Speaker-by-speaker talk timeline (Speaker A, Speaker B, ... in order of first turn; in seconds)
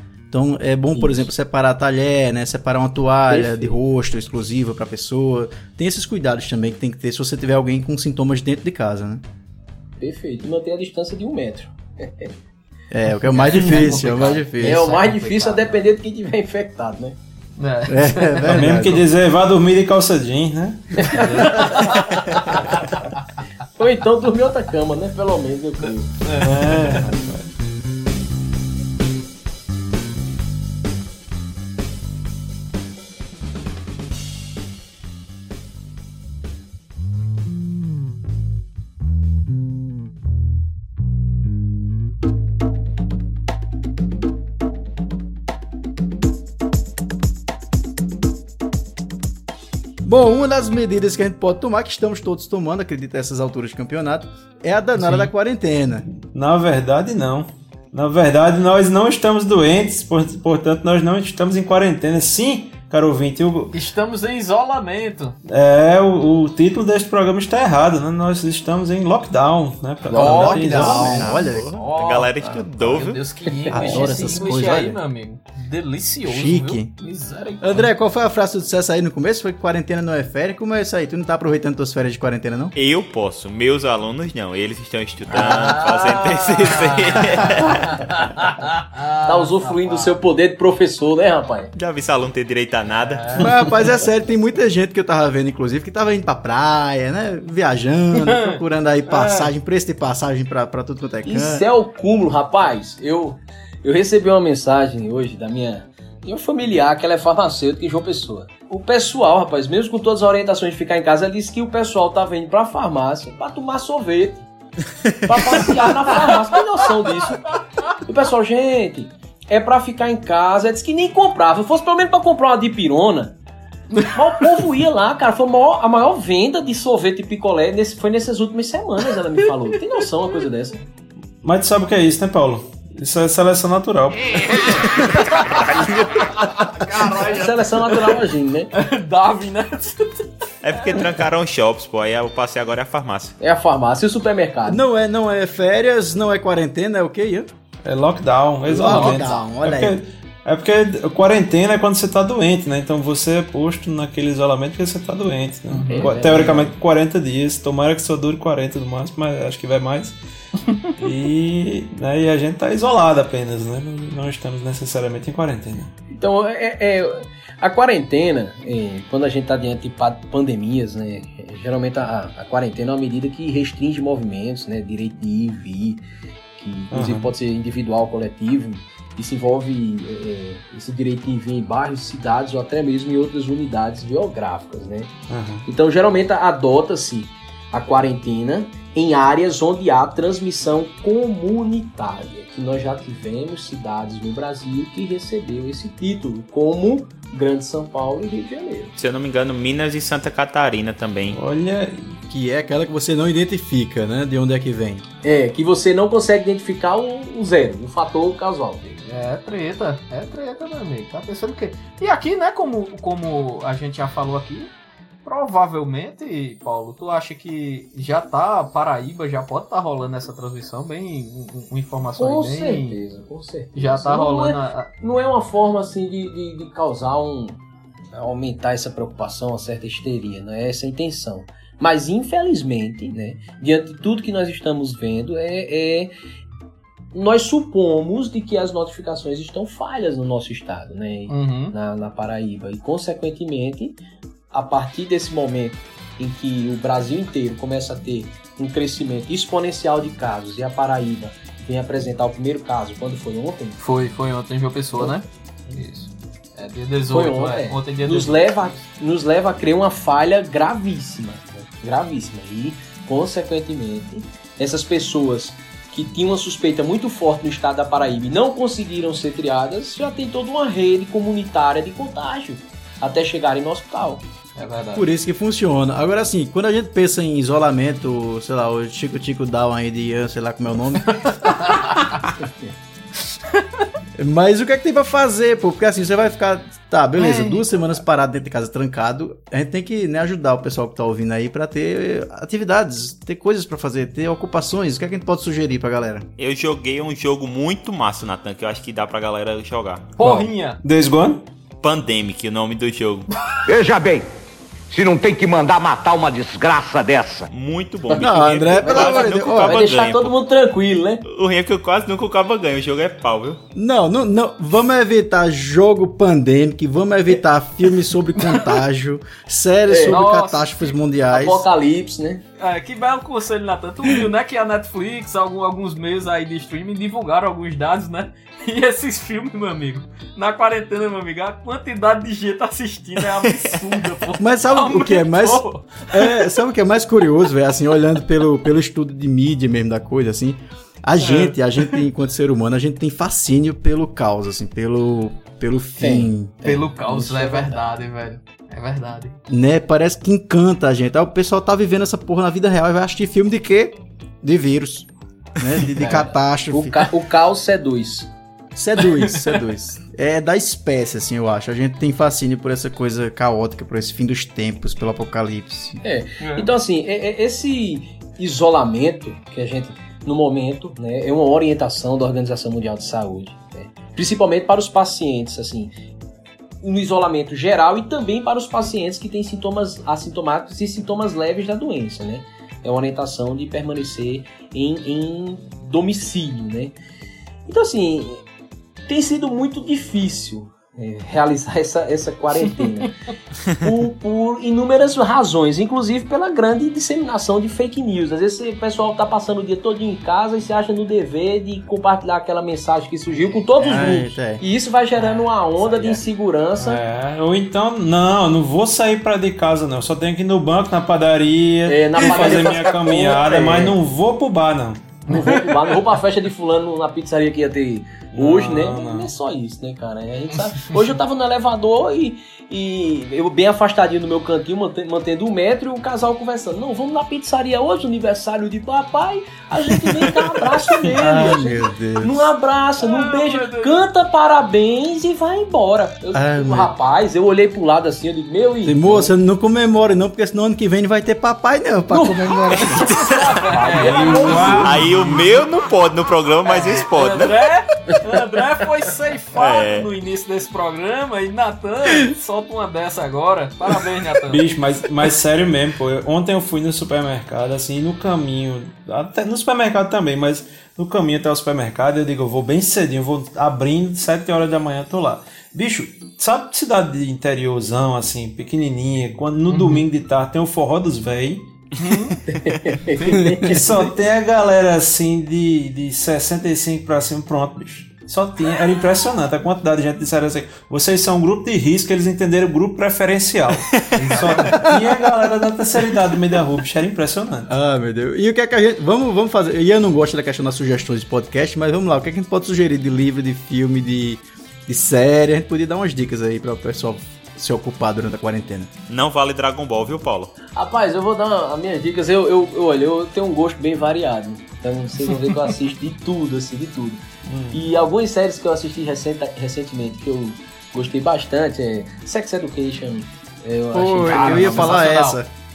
Speaker A: 0.3-9.2, 12.9-14.9, 17.9-19.0, 50.0-56.1, 70.1-71.8, 73.7-75.0, 76.2-76.9, 77.6-82.7, 93.4-101.7, 144.7-147.5, 148.7-150.0, 202.3-205.1, 274.9-281.3, 284.2-296.3, 308.2-309.8, 313.8-321.7, 334.4-346.8, 349.5-357.1, 358.8-366.0, 403.8-404.6, 431.2-432.5, 436.3-436.9, 438.8-443.3, 473.4-473.8, 484.4-485.0, 487.7-498.9, 513.9-515.5
Speaker B: 0.9-1.3, 3.3-3.8, 10.0-12.3, 14.5-17.2, 23.8-26.1, 70.1-71.0, 73.7-74.4, 89.2-91.7, 101.2-114.5, 115.2-117.5, 118.0-123.4, 124.1-130.8, 137.2-138.7, 143.4-144.8, 155.9-156.7, 166.1-176.0, 176.6-185.1, 185.7-198.9, 205.2-209.0, 222.2-227.6, 228.1-236.1, 237.1-244.0, 244.5-253.8, 257.1-274.2, 308.1-311.2, 319.9-320.2, 321.3-322.4, 346.0-346.3, 347.0-347.8, 356.0-358.3, 366.0-375.9, 376.8-386.9, 387.7-388.4, 389.1-393.1, 393.8-407.0, 411.9-414.0, 415.3-439.3, 442.1-445.0, 472.5-473.8, 500.7-507.2, 507.7-515.0
Speaker C: 13.3-15.8, 17.6-19.0, 21.1-22.2, 26.3-27.1, 55.0-55.3, 63.7-65.4, 70.1-77.9, 85.3-90.2, 93.0-93.7, 98.2-98.6, 99.1-99.4, 115.6-117.9, 123.9-124.6, 134.4-138.2, 138.7-141.1, 148.7-149.4, 155.7-156.2, 209.1-214.7, 215.2-223.0, 223.8-224.9, 241.3-241.8, 253.8-258.8, 274.6-275.1, 281.2-282.3, 283.6-283.9, 287.2-287.7, 300.2-300.8, 318.5-318.8, 320.1-321.0, 322.6-336.4, 341.2-342.0, 346.6-349.4, 356.0-356.3, 359.2-359.6, 366.4-366.7, 392.7-393.1, 405.2-406.2, 433.0-434.1, 443.0-444.8, 446.7-454.6, 469.7-470.1, 472.0-472.4, 484.5-484.9, 514.2-515.4
Speaker D: 18.4-21.7, 26.3-27.5, 56.1-63.8, 65.5-71.3, 131.4-134.6, 147.8-160.2, 161.0-165.9, 176.9-177.3, 185.3-185.7, 201.3-202.2, 300.2-301.4, 406.8-415.7, 418.3-419.3, 444.0-445.5, 454.5-471.7, 473.3-487.7, 507.5-507.8
Speaker E: 71.2-73.2, 82.8-88.0, 91.7-93.5, 140.6-143.4, 199.0-201.4, 296.4-300.1, 301.8-303.3, 307.5-310.4, 311.3-313.6, 444.8-447.6, 449.6-450.1, 499.1-500.5
Speaker F: 303.7-304.2, 304.9-307.5